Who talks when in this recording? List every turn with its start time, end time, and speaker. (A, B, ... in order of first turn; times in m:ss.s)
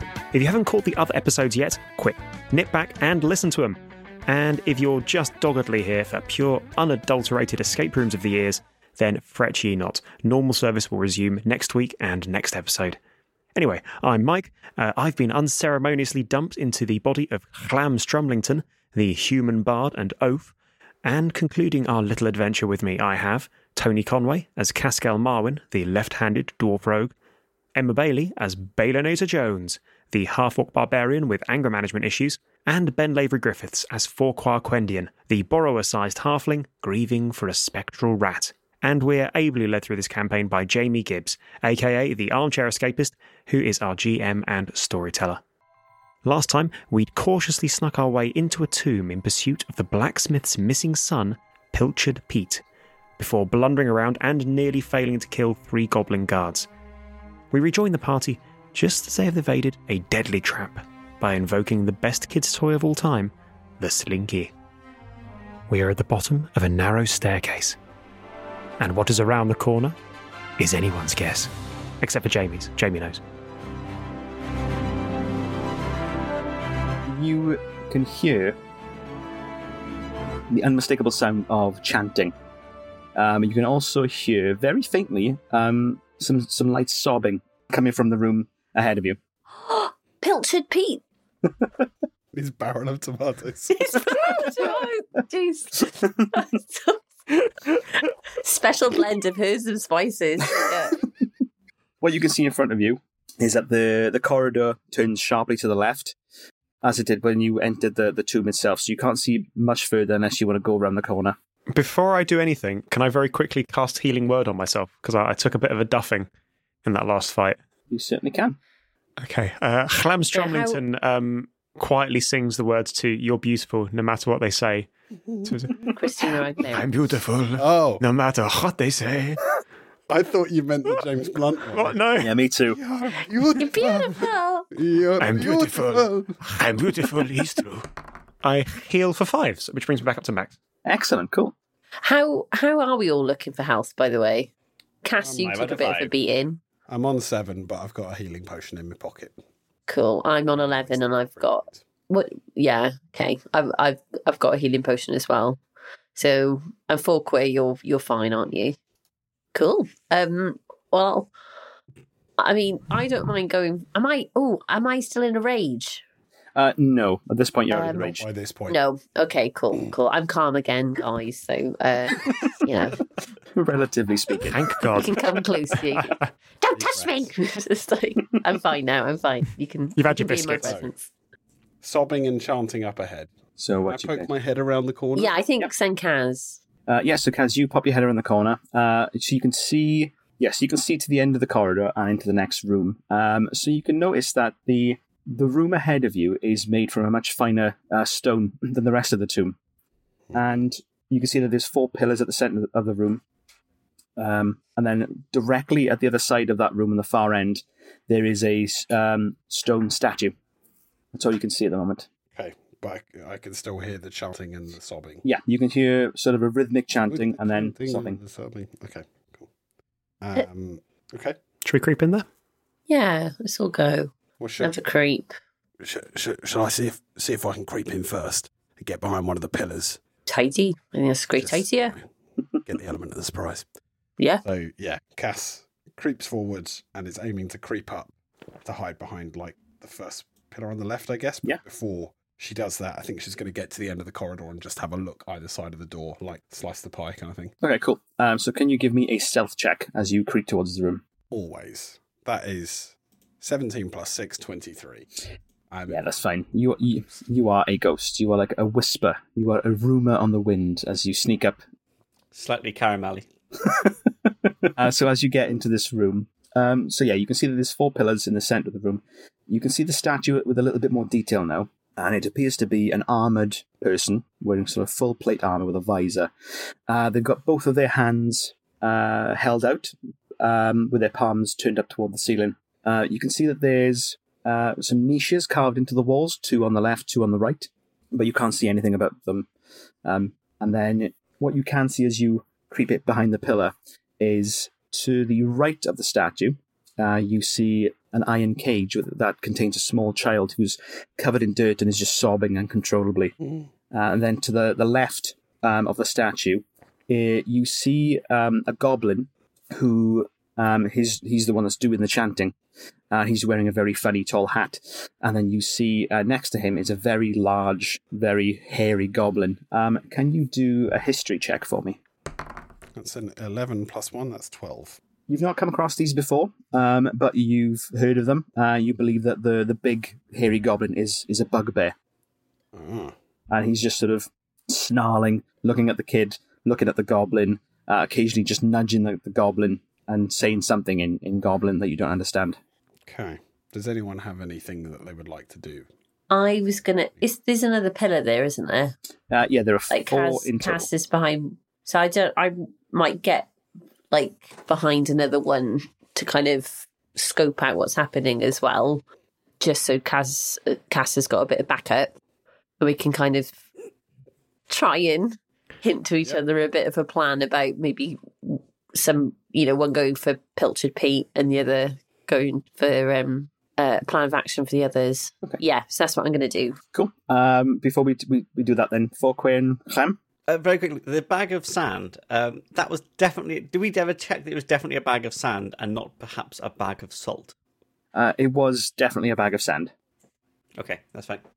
0:00.3-0:13.0 A
0:13.5-0:27.1 A
0:27.7-0:45.4 A
0:46.2-0:52.6 A
0:53.2-0:56.7 A
0:57.5-1:04.5 A
1:05.7-1:07.8 A
1:08.8-1:10.0 A
1:10.6-1:13.2 A
1:17.0-1:18.6 B
1:20.5-1:22.3 B
1:23.1-1:29.2 B
1:29.5-1:31.0 C
1:32.3-1:34.0 D
1:33.7-1:41.1 C
1:42.0-1:46.2 B
1:46.8-1:51.4 B
1:51.7-1:56.3 A
1:56.8-1:57.6 A
1:57.9-1:58.6 B
1:59.2-2:04.9 A
2:00.3-2:00.8 C
2:05.3-2:05.9 D
2:05.4-2:05.8 A
2:05.9-2:06.8 C
2:06.6-2:09.4 A
2:07.6-2:08.0 D
2:10.1-2:12.0 D
2:11.7-2:12.3 A
2:12.2-2:12.8 B
2:12.7-2:16.5 D
2:13.6-2:14.7 C
2:15.2-2:17.8 A
2:18.4-2:20.5 A
2:20.8-2:21.5 B
2:22.0-2:24.5 C
2:25.0-2:26.6 C
2:25.2-2:25.6 D
2:25.4-2:26.1 B
2:26.9-2:29.4 D
2:29.9-2:35.6 C
2:30.5-2:31.8 D
2:36.2-2:38.8 C
2:39.5-2:41.3 C
2:42.4-2:46.0 C
2:46.5-2:48.2 B
2:47.7-2:53.0 C
2:47.7-2:48.8 D
2:53.5-2:54.6 B
2:54.4-2:55.1 A
2:55.0-3:01.1 C
2:55.9-2:56.3 A
2:56.7-2:57.3 D
3:00.0-3:00.8 A
3:00.5-3:00.9 D
3:01.8-3:05.3 D
3:03.6-3:04.3 B
3:05.1-3:06.6 C
3:06.8-3:19.6 B
3:20.3-3:23.2 B
3:24.2-3:30.3 B
3:31.1-3:32.1 B
3:32.3-3:35.2 D
3:35.2-3:38.2 B
3:37.1-3:39.5 D
3:40.2-3:41.4 D
3:41.6-3:42.2 A
3:42.9-3:45.3 C
3:44.4-3:44.7 D
3:45.8-3:50.0 D
3:50.2-3:51.9 C
3:51.4-3:52.1 D
3:52.7-3:53.6 D
3:54.4-3:58.1 D
3:58.6-4:07.5 D
4:07.6-4:11.0 B
4:11.3-4:15.1 D
4:15.7-4:16.0 D
4:15.9-4:21.6 B
4:22.3-4:23.2 E
4:24.7-4:36.3 B
4:36.9-4:49.5 B
4:50.0-5:03.3 B
5:03.9-5:12.5 B
5:13.1-5:22.0 B
5:22.9-5:25.0 D
5:25.3-5:31.9 B
5:32.7-5:33.1 D
5:33.5-5:42.6 B
5:43.0-5:45.9 D
5:46.3-5:48.9 C
5:49.3-5:50.9 B
5:49.9-5:53.5 C
5:54.1-5:59.0 C
5:59.6-6:02.1 C
6:02.8-6:03.6 C
6:04.7-6:16.8 C
6:16.9-6:20.2 B
6:20.5-6:27.5 E
6:28.1-6:29.9 B
6:30.8-6:31.4 E